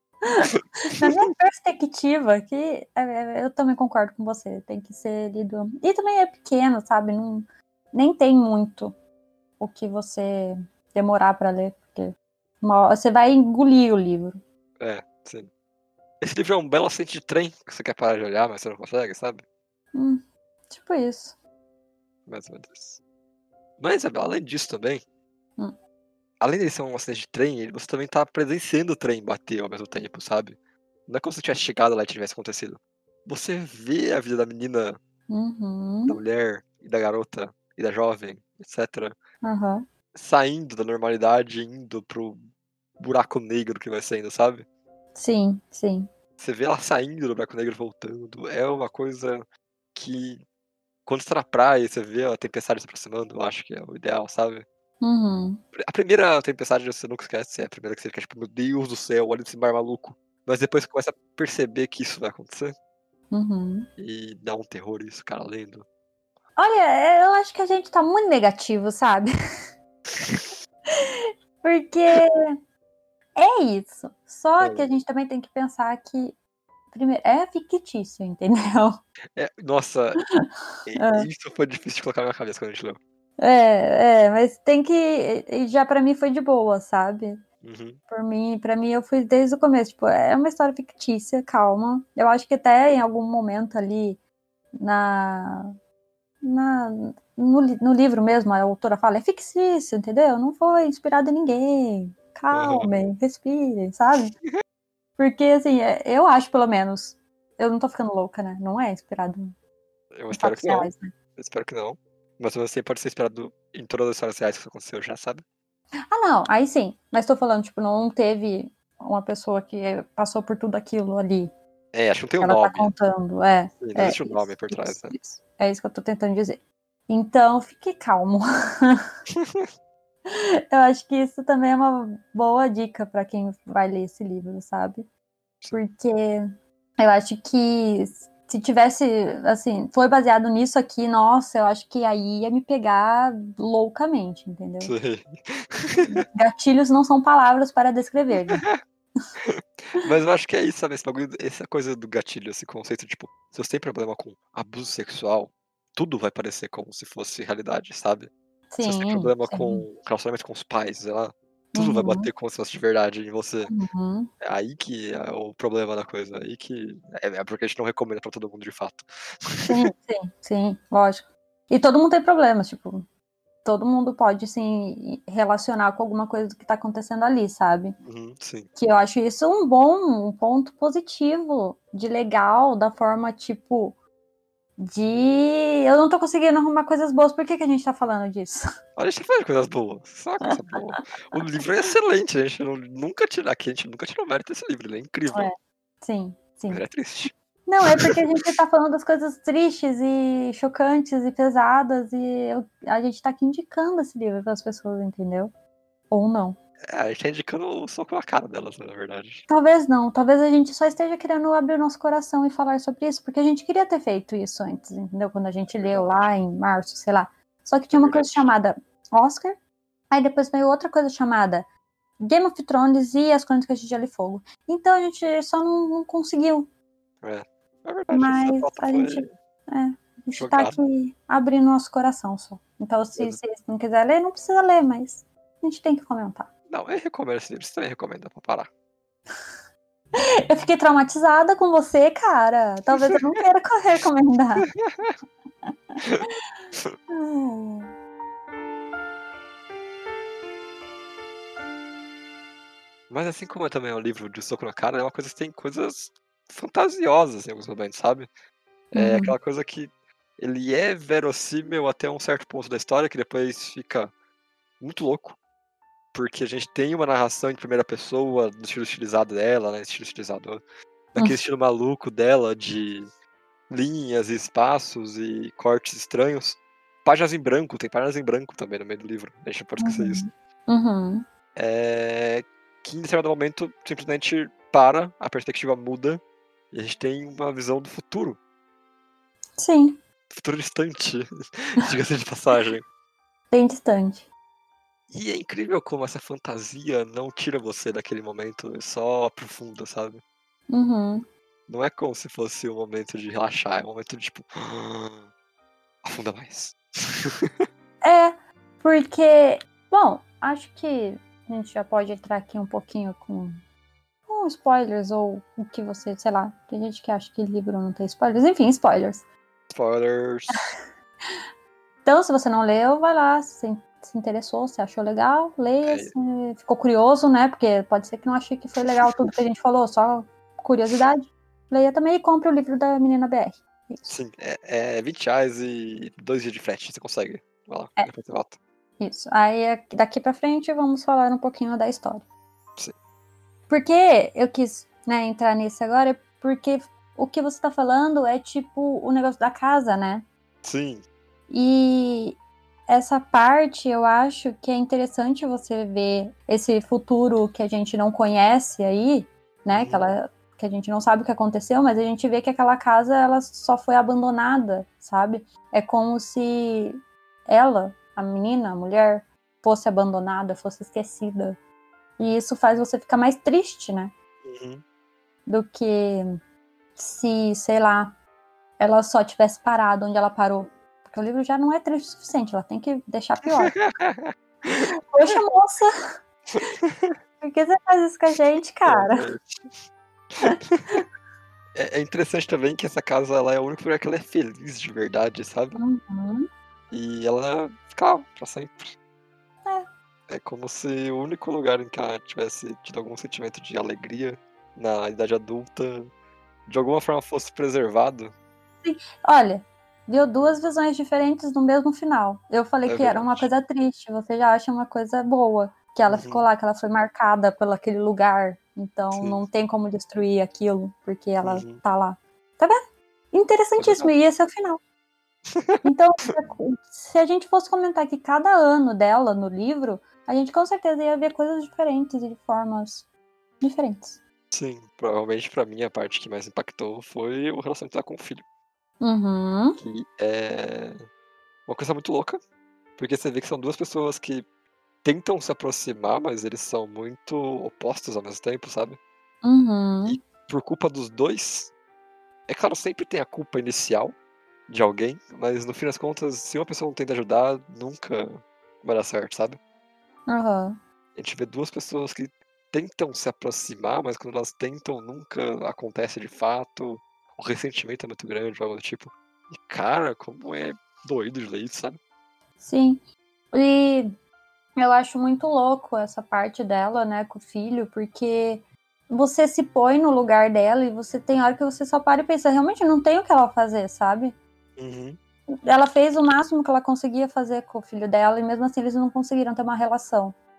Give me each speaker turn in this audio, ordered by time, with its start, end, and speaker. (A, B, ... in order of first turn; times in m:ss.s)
0:00.3-0:09.0 A
0:09.6-0:14.4 A
0:14.8-0:15.5 B
0:16.2-0:19.4 B
0:19.9-0:21.4 A
0:22.3-0:23.0 B
0:23.8-0:25.0 B
0:26.4-0:35.0 B
0:35.3-0:36.2 A
0:36.1-0:39.2 B
0:39.4-0:39.9 A
0:40.2-0:42.4 B
0:43.0-0:44.7 B
0:45.2-0:46.1 A
0:46.4-0:50.4 B
0:51.1-0:54.7 B
0:55.0-0:55.6 A
0:55.7-1:02.8 B
1:03.3-1:03.9 A
1:04.0-1:05.9 B
1:06.6-1:09.3 A
1:10.2-1:10.6 B
1:10.9-1:12.6 A
1:13.4-1:16.4 A
1:14.6-1:14.9 B
1:16.9-1:19.0 A
1:19.4-1:20.2 B
1:20.9-1:23.0 B
1:21.0-1:21.3 A
1:23.4-1:27.4 A
1:27.6-1:28.0 B
1:28.1-1:34.2 A
1:34.8-1:35.7 A
1:36.4-1:44.3 A
1:42.5-1:43.0 B
1:45.2-1:49.6 A
1:50.2-1:55.4 B
1:50.3-1:51.1 A
1:56.1-2:01.5 A
2:01.9-2:02.9 B
2:02.4-2:09.0 A
2:03.8-2:05.2 B
2:09.4-2:09.7 B
2:10.3-2:15.1 A
2:15.7-2:24.9 A
2:24.8-2:26.2 B
2:26.1-2:28.7 A
2:29.4-2:38.3 B
2:38.7-2:39.8 A
2:38.8-2:43.7 B
2:41.7-2:42.3 A
2:43.7-2:44.3 A
2:44.4-2:49.8 B
2:49.7-2:53.1 A
2:53.6-2:58.0 A
2:58.0-2:58.7 B
2:58.8-3:04.0 A
3:04.8-3:08.6 A
3:09.0-3:15.5 B
3:15.3-3:16.8 A
3:16.7-3:17.3 B
3:17.7-3:25.5 A
3:17.9-3:18.2 B
3:26.1-3:26.6 A
3:26.9-3:29.4 B
3:29.5-3:39.6 A
3:35.6-3:36.3 B
3:37.9-3:38.5 B
3:40.1-3:41.7 A
3:42.2-3:46.7 A
3:47.2-3:49.3 B
3:48.1-3:56.5 A
3:50.4-3:50.8 B
3:56.7-3:58.7 B
4:00.2-4:04.7 A
4:04.7-4:05.2 B
4:05.7-4:06.3 A
4:07.1-4:07.9 A
4:13.1-4:18.3 B
4:18.9-4:24.1 B
4:19.0-4:19.4 A
4:24.8-4:25.4 B
4:26.1-4:30.6 B
4:31.1-4:33.1 B
4:33.7-4:40.2 B
4:39.8-4:41.2 A
4:41.6-4:48.4 B
4:49.6-4:50.0 A
4:50.3-4:52.8 B
4:53.5-4:54.3 A
4:55.1-5:00.2 B
5:00.7-5:01.3 A
5:01.7-5:05.3 B
5:06.0-5:07.6 B
5:08.0-5:13.6 A
5:14.3-5:19.3 A
5:19.7-5:20.6 B
5:22.0-5:34.2 A
5:25.8-5:26.1 B
5:34.1-5:38.6 B
5:39.0-5:42.3 A
5:43.7-5:50.3 A
5:50.6-5:51.0 B
5:51.5-6:11.6 A
5:59.7-6:00.0 B
6:12.2-6:14.1 A
6:14.4-6:14.8 B
6:15.5-6:16.3 A
6:17.0-6:18.2 A
6:18.8-6:23.8 A
6:23.5-6:25.4 B
6:25.1-6:26.0 A
6:26.8-6:27.1 B
6:27.4-6:29.3 A
6:28.9-6:29.4 B
6:30.4-6:31.0 B
6:30.4-6:31.0 A
6:31.8-6:35.8 B
6:35.8-6:36.5 A
6:36.9-6:39.0 B
6:40.3-6:46.1 B
6:46.7-6:48.3 B
6:48.8-7:02.8 A
6:52.9-6:53.5 B
6:56.1-6:56.5 B
6:59.2-6:59.4 B
7:01.4-7:01.8 B
7:03.3-7:04.8 A
7:03.8-7:04.1 B
7:05.5-7:06.3 B
7:05.8-7:13.1 A
7:13.6-7:14.2 A
7:14.5-7:18.4 B
7:19.0-7:19.8 A
7:19.8-7:21.0 B
7:21.7-7:22.4 B
7:23.0-7:24.4 B
7:25.0-7:29.0 B
7:29.4-7:30.2 A
7:30.1-7:31.7 B
7:32.5-7:34.2 B
7:34.7-7:39.6 B
7:40.3-7:40.8 A
7:41.2-7:52.0 B
7:52.6-7:53.0 A
7:53.5-7:54.1 A
7:54.8-8:04.4 A
8:04.8-8:05.2 B
8:05.7-8:10.4 A